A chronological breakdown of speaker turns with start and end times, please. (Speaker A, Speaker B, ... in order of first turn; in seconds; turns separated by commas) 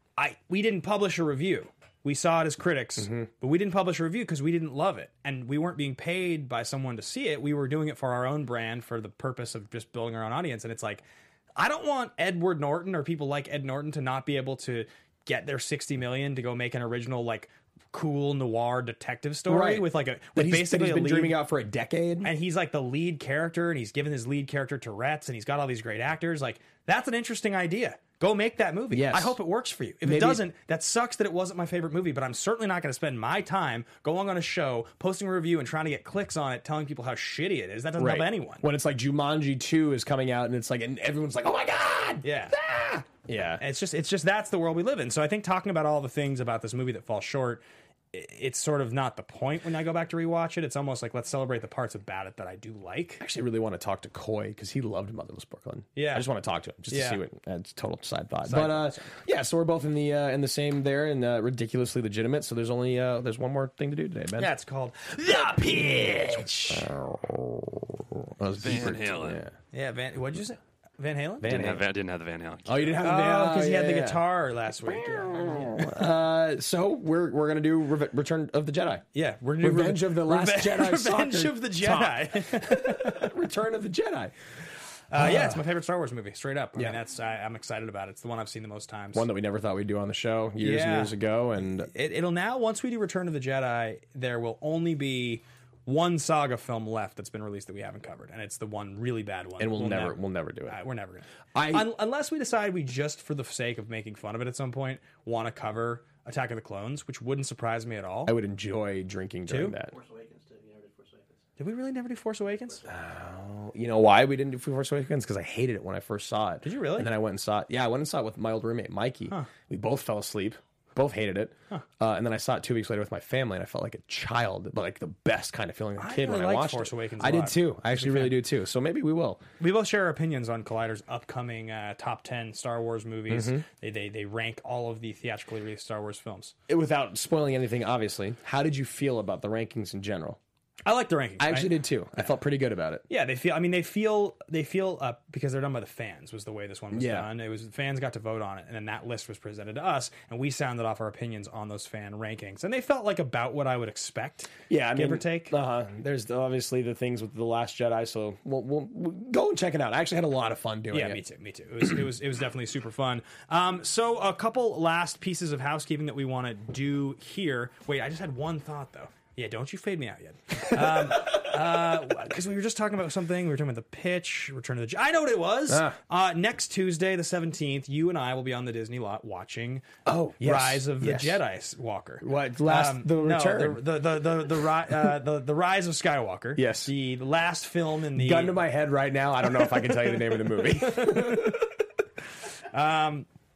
Speaker A: 0.2-11.0, Speaker B: 3.0-3.3, Speaker A: 11.6-21.4, Speaker B: 19.5-22.3, Speaker A: 22.2-38.6, Speaker B: 28.9-29.4, Speaker B: 30.0-30.4, Speaker B: 38.0-43.6, Speaker A: 42.2-43.1, Speaker A: 43.6-53.2, Speaker B: 53.2-64.5, Speaker A: 56.0-56.3, Speaker A: 56.9-57.2, Speaker A: 58.5-59.1, Speaker A: 64.4-66.9, Speaker B: 65.3-69.5, Speaker C: 68.6-69.5, Speaker A: 69.7-71.6, Speaker B: 71.4-71.8, Speaker C: 71.4-73.0, Speaker B: 72.7-74.2, Speaker A: 73.0-76.0, Speaker B: 74.8-79.0, Speaker A: 79.1-83.3, Speaker B: 79.6-84.3, Speaker A: 85.1-89.3, Speaker B: 85.2-85.6, Speaker B: 89.1-91.9, Speaker A: 90.6-91.2, Speaker A: 91.8-100.2, Speaker B: 99.6-100.8, Speaker A: 100.7-108.3, Speaker B: 101.5-101.9, Speaker B: 108.3-110.0, Speaker A: 109.5-109.8, Speaker D: 109.8-111.4, Speaker A: 111.6-112.8, Speaker D: 112.5-113.0, Speaker B: 112.8-129.4, Speaker A: 116.6-117.1, Speaker A: 126.0-128.4, Speaker A: 129.6-136.5, Speaker B: 133.3-133.7, Speaker B: 136.7-140.4, Speaker A: 140.9-141.8, Speaker B: 141.4-143.0, Speaker A: 143.1-155.5, Speaker B: 146.9-147.3, Speaker B: 154.7-161.2, Speaker A: 160.9-179.9, Speaker B: 170.7-171.4, Speaker B: 175.7-176.0, Speaker B: 180.1-181.4, Speaker A: 180.4-188.6, Speaker B: 182.2-183.8, Speaker B: 186.6-186.9, Speaker B: 188.2-191.7, Speaker A: 189.6-191.7, Speaker A: 192.7-193.3